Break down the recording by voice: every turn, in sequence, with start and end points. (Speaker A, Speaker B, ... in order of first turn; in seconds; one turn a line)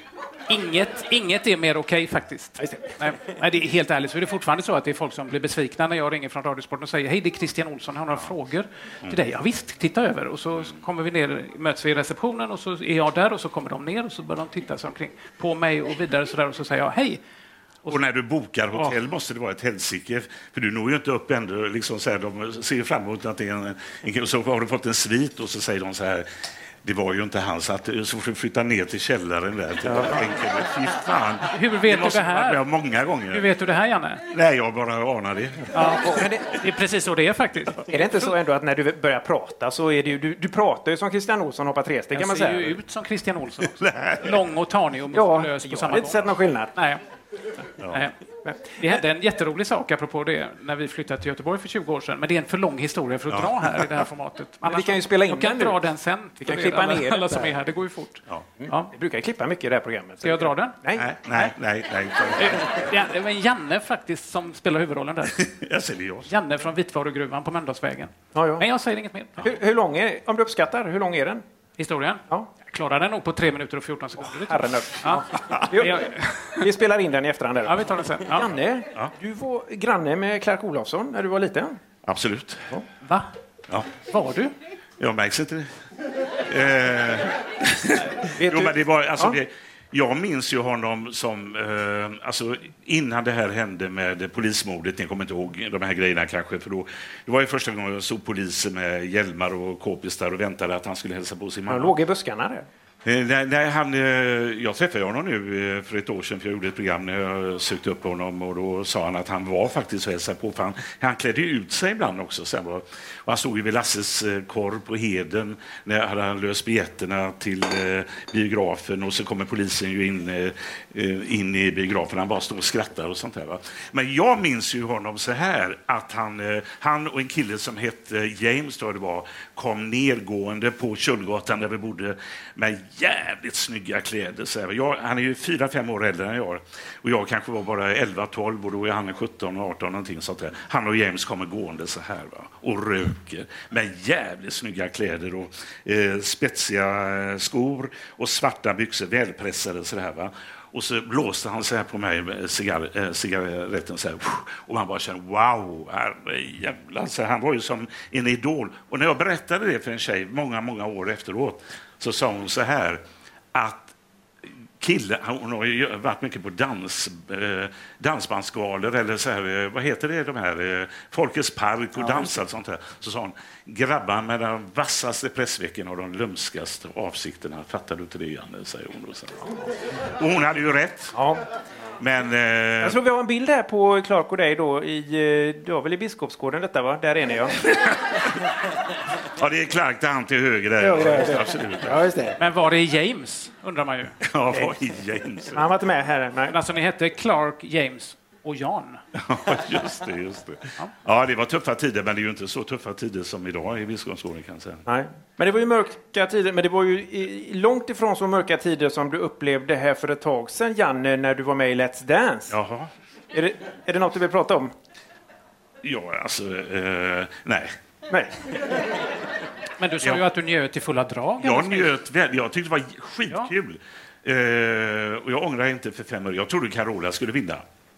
Speaker A: 0.5-17.2
Speaker B: 2.6-2.9
Speaker C: 17.9-26.3
Speaker C: 26.8-33.5
Speaker A: 31.5-32.6
Speaker A: 33.3-34.2
Speaker C: 34.3-36.0
Speaker A: 35.7-38.3
Speaker B: 36.0-36.5
Speaker B: 37.9-42.8
Speaker A: 42.1-47.0
Speaker C: 43.8-44.3
Speaker B: 45.1-46.7
Speaker C: 47.8-48.0
Speaker A: 47.8-48.1
Speaker B: 48.5-48.8
Speaker A: 48.8-58.9
Speaker C: 53.3-53.9
Speaker B: 54.6-55.8
Speaker B: 56.4-57.5
Speaker B: 58.6-61.5
Speaker A: 60.2-60.8
Speaker C: 61.0-62.9
Speaker A: 62.4-65.5
Speaker C: 65.4-66.3
Speaker A: 66.3-69.5
Speaker B: 68.3-68.7
Speaker B: 69.4-71.4
Speaker A: 71.8-76.7
Speaker B: 74.3-76.1
Speaker B: 76.6-81.8
Speaker A: 77.7-78.5
Speaker C: 82.1-82.7
Speaker A: 83.0-83.3
Speaker A: 84.0-84.5
Speaker C: 85.0-85.7
Speaker C: 86.5-101.9
Speaker B: 88.4-89.4
Speaker B: 101.7-102.7
Speaker C: 103.0-163.0
Speaker C: 163.5-163.9
Speaker C: 164.8-179.6
Speaker B: 172.0-172.3
Speaker C: 180.1-181.1
Speaker B: 181.1-181.4
Speaker C: 182.0-183.0
Speaker B: 182.8-187.6
Speaker C: 187.7-188.4
Speaker C: 189.2-192.0
Speaker B: 190.8-192.4
Speaker A: 192.4-194.2
Speaker C: 194.2-195.7
Speaker B: 195.5-196.6
Speaker A: 196.5-199.0
Speaker C: 199.2-204.8
Speaker B: 204.9-212.5
Speaker C: 212.5-212.9
Speaker B: 213.3-214.7
Speaker C: 215.8-217.8
Speaker A: 219.8-221.9
Speaker C: 221.4-227.6